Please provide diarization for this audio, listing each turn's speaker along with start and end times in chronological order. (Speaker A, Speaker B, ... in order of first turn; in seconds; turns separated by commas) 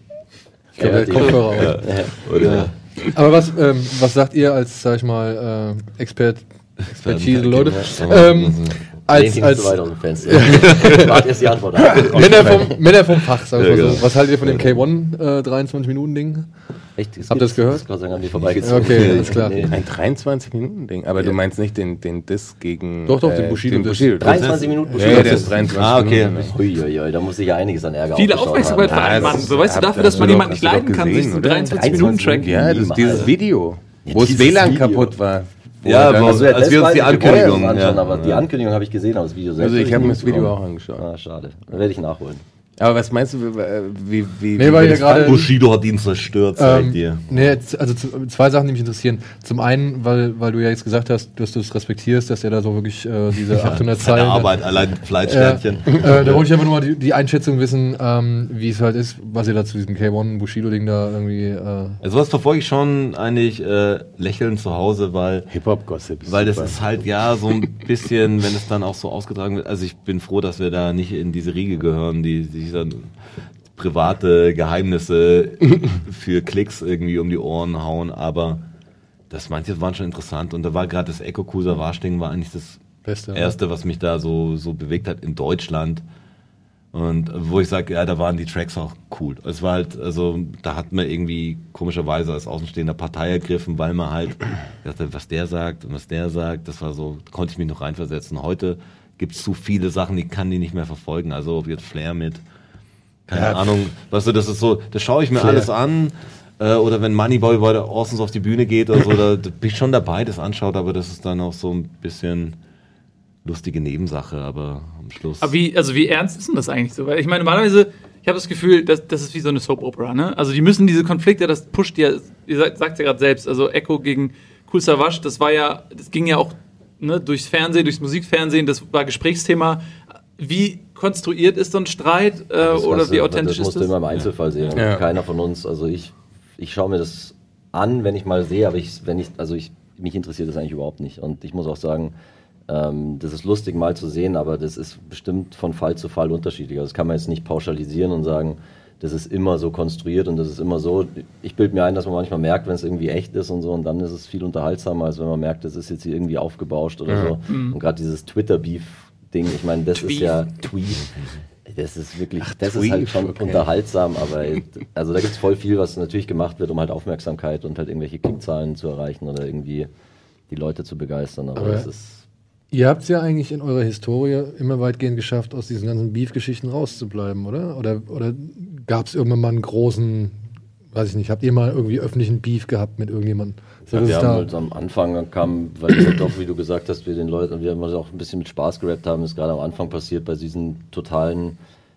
Speaker A: 0.7-1.9, Speaker B: 0.8-2.7, Speaker C: 1.5-2.7, Speaker A: 3.0-11.2, Speaker C: 6.9-8.8, Speaker B: 9.1-12.7, Speaker C: 10.7-11.0, Speaker A: 11.9-16.5, Speaker C: 11.9-12.4, Speaker C: 13.5-14.1, Speaker B: 17.0-19.8, Speaker A: 17.3-17.9, Speaker C: 18.4-19.6, Speaker A: 18.6-19.6, Speaker D: 19.7-26.5, Speaker A: 23.1-24.2, Speaker B: 24.2-25.8, Speaker C: 24.2-26.5, Speaker B: 26.3-30.6, Speaker E: 28.1-32.5, Speaker D: 28.8-36.5, Speaker B: 31.7-33.4, Speaker B: 34.0-35.1, Speaker C: 35.8-38.5, Speaker B: 36.0-42.4, Speaker D: 37.1-37.8, Speaker D: 39.6-41.0, Speaker D: 42.8-45.4, Speaker A: 44.5-45.5, Speaker C: 44.9-47.2, Speaker A: 46.6-54.5, Speaker C: 53.5-56.3, Speaker A: 55.2-62.0, Speaker C: 62.0-65.5, Speaker D: 65.5-66.8, Speaker C: 66.2-73.1, Speaker C: 73.7-78.6, Speaker C: 79.3-82.8, Speaker A: 83.0-83.5, Speaker C: 83.3-86.0, Speaker C: 86.9-102.4, Speaker C: 103.3-112.5, Speaker D: 103.3-103.8, Speaker D: 105.4-105.7, Speaker C: 113.4-115.5, Speaker E: 115.4-129.8, Speaker E: 130.4-133.9, Speaker B: 132.6-142.1, Speaker D: 134.7-135.0, Speaker B: 142.7-161.1, Speaker D: 157.1-157.3, Speaker E: 157.5-157.8, Speaker E: 159.9-160.4, Speaker B: 161.7-169.9, Speaker D: 162.4-163.7, Speaker B: 170.5-172.2, Speaker A: 171.6-171.9, Speaker A: 172.7-180.4, Speaker A: 180.9-184.5, Speaker B: 183.9-191.6